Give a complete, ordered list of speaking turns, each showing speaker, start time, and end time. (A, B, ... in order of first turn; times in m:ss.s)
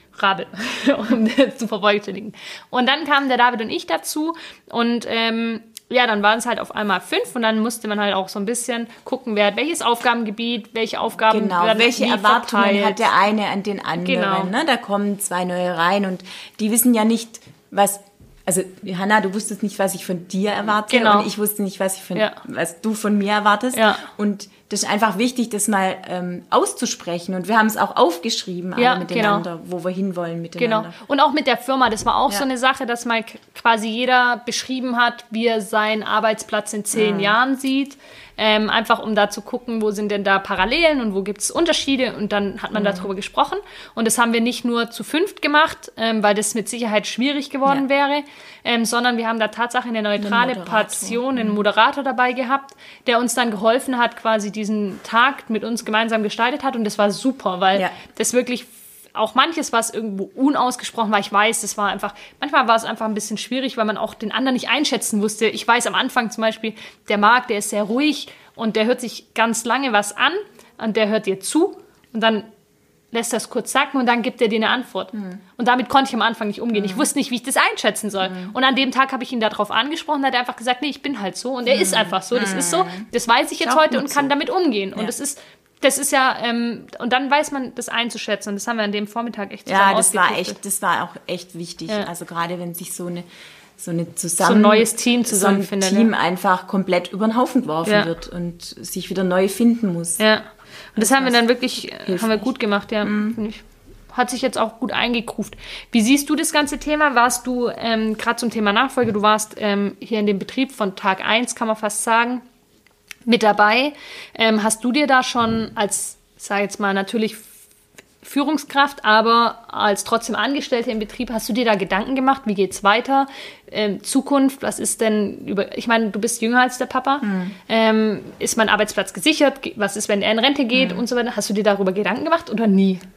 0:00.1-0:13.1 A
0:11.3-0:31.0 B
0:14.0-0:14.5 A
0:20.9-0:21.3 A
0:22.1-0:22.4 A
0:23.7-0:24.0 A
0:28.8-0:29.4 A
0:30.6-1:12.5 A
0:36.9-0:37.4 B
0:42.7-0:43.1 B
0:50.2-0:51.6 B
1:13.1-1:30.6 A
1:16.8-1:17.0 B
1:18.2-1:18.5 B
1:21.7-1:23.1 B
1:23.6-1:24.3 B
1:29.7-1:33.2 B
1:33.8-1:40.2 B
1:34.4-1:36.1 A
1:37.8-1:38.1 A
1:40.2-1:52.4 A
1:41.0-1:42.5 B
1:43.0-1:43.4 B
1:53.2-1:57.5 A
1:58.2-2:13.0 A
2:07.2-2:07.5 B
2:10.7-2:11.0 B